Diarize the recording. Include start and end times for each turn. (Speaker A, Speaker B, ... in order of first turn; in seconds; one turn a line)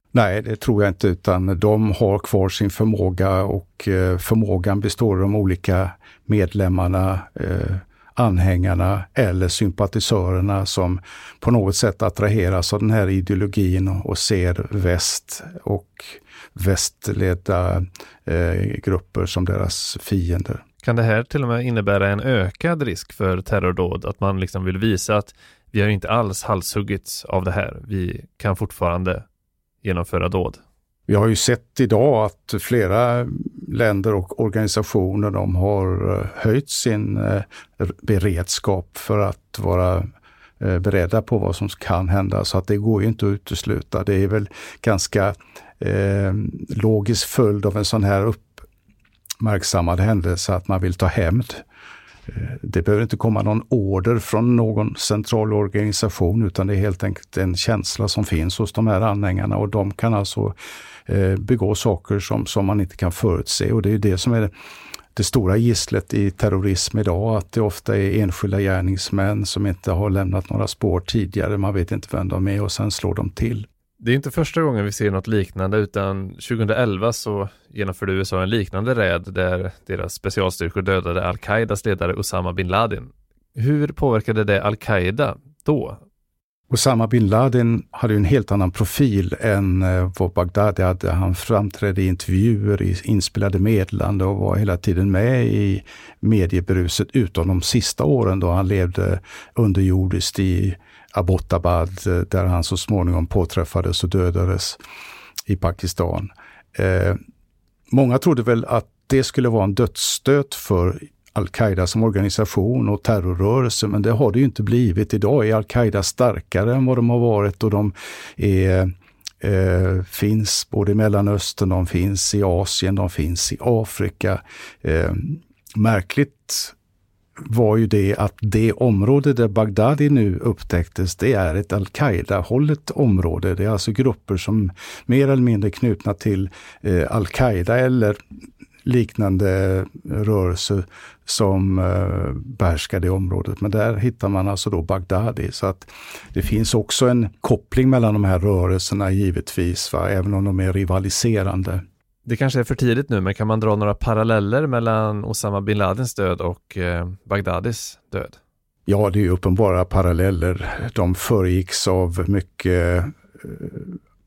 Speaker A: 0.1-20.6
Speaker B: 20.8-29.2
Speaker B: 29.8-30.6
Speaker A: 31.1-40.0
Speaker A: 40.6-48.6
Speaker A: 49.4-51.6
Speaker A: 52.3-64.5
Speaker A: 65.2-73.7
Speaker B: 74.0-86.0
Speaker A: 86.7-104.8
Speaker A: 105.5-107.2
Speaker A: 107.9-126.8
Speaker A: 127.4-138.2
Speaker A: 138.8-151.8
Speaker B: 152.2-158.4
Speaker A: 158.9-164.0